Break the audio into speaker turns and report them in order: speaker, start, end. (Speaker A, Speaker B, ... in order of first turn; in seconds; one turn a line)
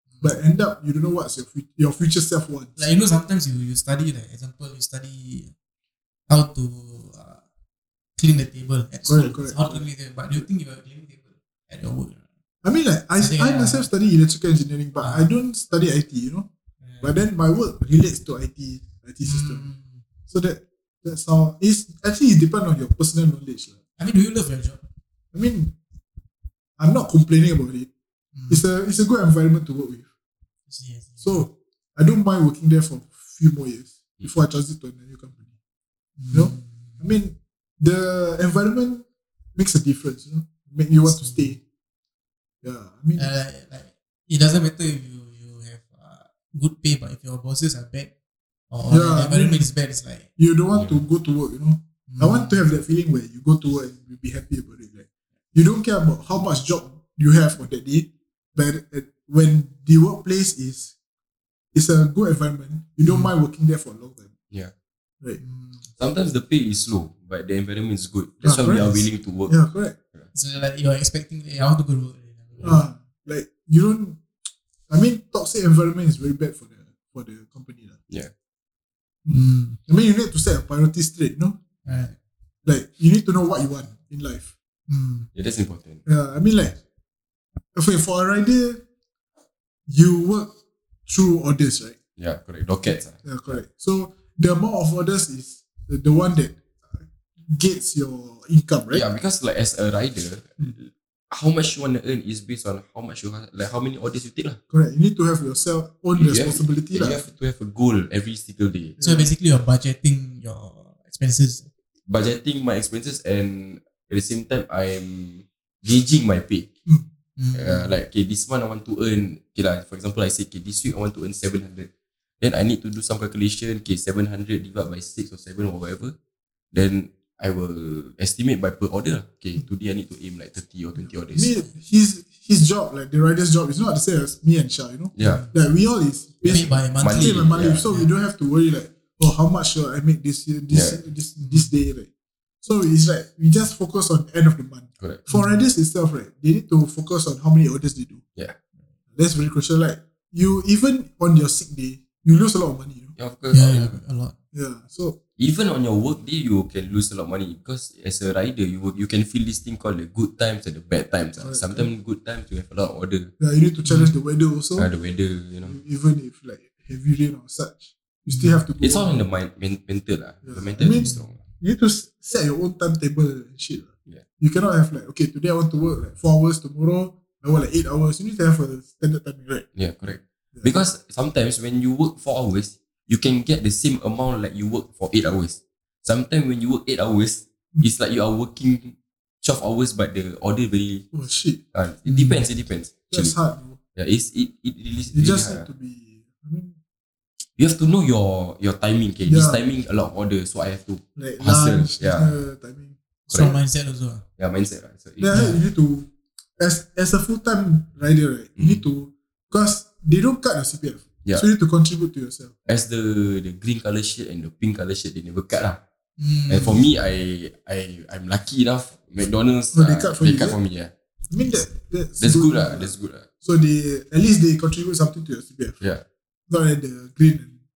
Speaker A: 0.2-2.8
Speaker B: 2.8-5.5
Speaker B: 6.3-7.4
Speaker B: 8.2-12.2
Speaker A: 9.1-9.8
Speaker A: 12.6-16.5
Speaker B: 13.2-13.9
Speaker B: 15.0-15.3
Speaker B: 16.8-17.2
Speaker A: 17.0-19.6
Speaker B: 19.2-20.0
Speaker A: 20.3-23.8
Speaker B: 24.0-24.8
Speaker A: 25.3-25.7
Speaker A: 26.8-27.9
Speaker B: 28.3-28.6
Speaker A: 28.5-30.1
Speaker B: 30.7-31.4
Speaker A: 31.2-35.5
Speaker B: 36.2-37.0
Speaker A: 36.3-41.6
Speaker B: 41.0-41.5
Speaker A: 42.6-43.3
Speaker B: 43.1-48.1
Speaker B: 48.7-50.3
Speaker A: 48.9-49.7
Speaker A: 50.4-60.9
Speaker C: 50.7-51.0
Speaker B: 52.1-52.6
Speaker A: 61.7-64.3
Speaker B: 63.1-63.3
Speaker B: 65.4-65.8
Speaker C: 66.0-69.6
Speaker A: 68.4-70.0
Speaker B: 70.3-72.8
Speaker A: 72.6-74.2
Speaker A: 74.9-78.0
Speaker A: 79.2-81.6
Speaker B: 79.3-79.8
Speaker B: 81.8-82.2
Speaker A: 82.6-84.5
Speaker B: 84.9-85.3
Speaker C: 85.3-86.0
Speaker A: 86.0-86.8
Speaker A: 87.7-88.8
Speaker A: 89.9-90.5
Speaker A: 91.1-92.0
Speaker C: 92.2-93.6
Speaker A: 93.1-99.0
Speaker C: 98.9-104.6
Speaker A: 104.7-107.2
Speaker C: 106.2-109.0
Speaker A: 109.0-109.3
Speaker B: 109.0-111.7
Speaker C: 112.1-116.7
Speaker B: 117.4-117.9
Speaker C: 117.5-121.9
Speaker C: 122.4-126.1
Speaker C: 126.7-131.5
Speaker A: 131.3-142.1
Speaker C: 135.2-135.5
Speaker B: 135.2-135.5
Speaker B: 136.4-138.1
Speaker C: 137.0-137.9
Speaker C: 140.7-141.0
Speaker B: 141.4-141.7
Speaker A: 142.6-148.2
Speaker C: 145.0-145.2
Speaker B: 145.3-145.6
Speaker A: 149.1-153.2
Speaker C: 153.2-154.0
Speaker B: 153.5-154.3
Speaker A: 154.5-155.2
Speaker C: 155.4-163.3
Speaker A: 161.4-161.9
Speaker A: 163.4-164.9
Speaker B: 163.8-164.1
Speaker C: 164.8-165.8
Speaker A: 165.6-169.2
Speaker B: 168.3-168.6
Speaker C: 168.8-171.4
Speaker A: 170.4-179.7
Speaker C: 179.7-191.1
Speaker A: 191.1-191.6
Speaker C: 191.7-193.3
Speaker B: 192.1-192.4
Speaker A: 193.1-193.8
Speaker C: 193.9-195.7
Speaker A: 195.1-196.8
Speaker C: 197.6-202.3
Speaker A: 199.2-199.6
Speaker A: 201.2-203.5
Speaker C: 203.3-203.5
Speaker B: 203.3-204.2
Speaker C: 204.4-205.4
Speaker A: 205.2-212.5
Speaker B: 205.3-205.6
Speaker C: 208.6-208.8
Speaker C: 212.7-215.8
Speaker B: 216.2-216.8
Speaker C: 216.5-220.9
Speaker A: 219.7-220.6
Speaker A: 221.3-225.8
Speaker C: 222.2-223.3
Speaker A: 226.5-227.6